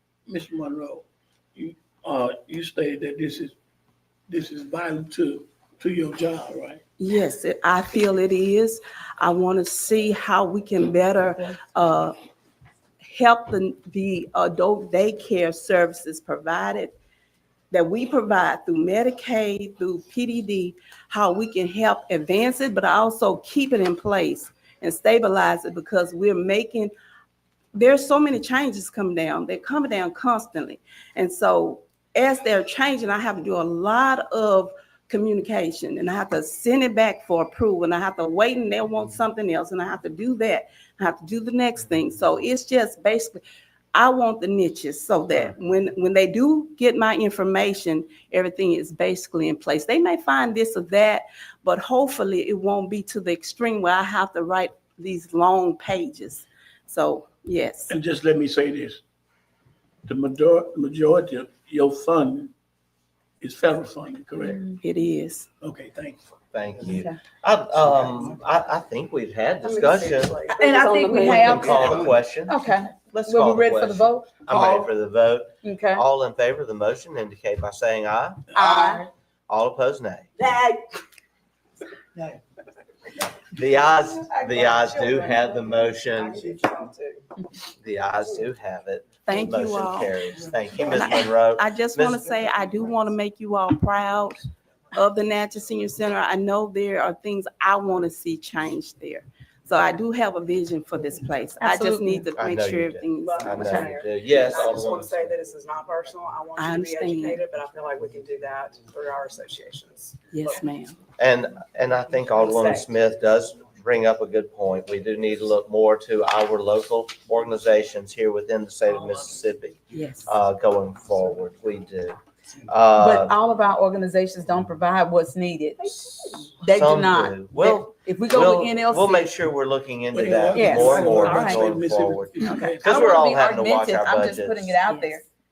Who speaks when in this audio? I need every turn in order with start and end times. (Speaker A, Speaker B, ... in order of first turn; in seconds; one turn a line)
Speaker A: 0.3-3.5
Speaker A: 4.3-6.8
Speaker B: 7.0-12.1
Speaker B: 13.0-17.0
Speaker B: 17.7-26.9
Speaker B: 27.7-43.4
Speaker B: 43.9-58.0
Speaker A: 57.9-59.0
Speaker A: 60.1-62.5
Speaker A: 63.4-64.7
Speaker C: 64.4-64.8
Speaker B: 64.8-65.5
Speaker A: 65.6-66.3
Speaker D: 66.5-70.5
Speaker C: 66.9-67.1
Speaker E: 69.7-70.5
Speaker C: 70.5-74.9
Speaker B: 70.6-71.7
Speaker D: 71.1-78.5
Speaker C: 75.6-76.0
Speaker C: 78.5-79.1
Speaker D: 79.5-80.3
Speaker D: 83.5-86.6
Speaker D: 87.8-92.3
Speaker B: 89.3-90.2
Speaker B: 90.8-103.7
Speaker C: 101.6-102.3
Speaker D: 102.3-105.4
Speaker E: 103.2-110.2
Speaker C: 103.5-103.9
Speaker B: 106.6-107.5
Speaker B: 110.3-111.0
Speaker D: 111.2-123.4
Speaker E: 112.5-112.8
Speaker B: 119.9-120.3
Speaker C: 123.0-126.0
Speaker D: 125.9-134.7
Speaker C: 126.6-129.3
Speaker A: 130.1-133.2
Speaker C: 130.6-131.7
Speaker C: 132.4-135.2
Speaker B: 134.9-135.2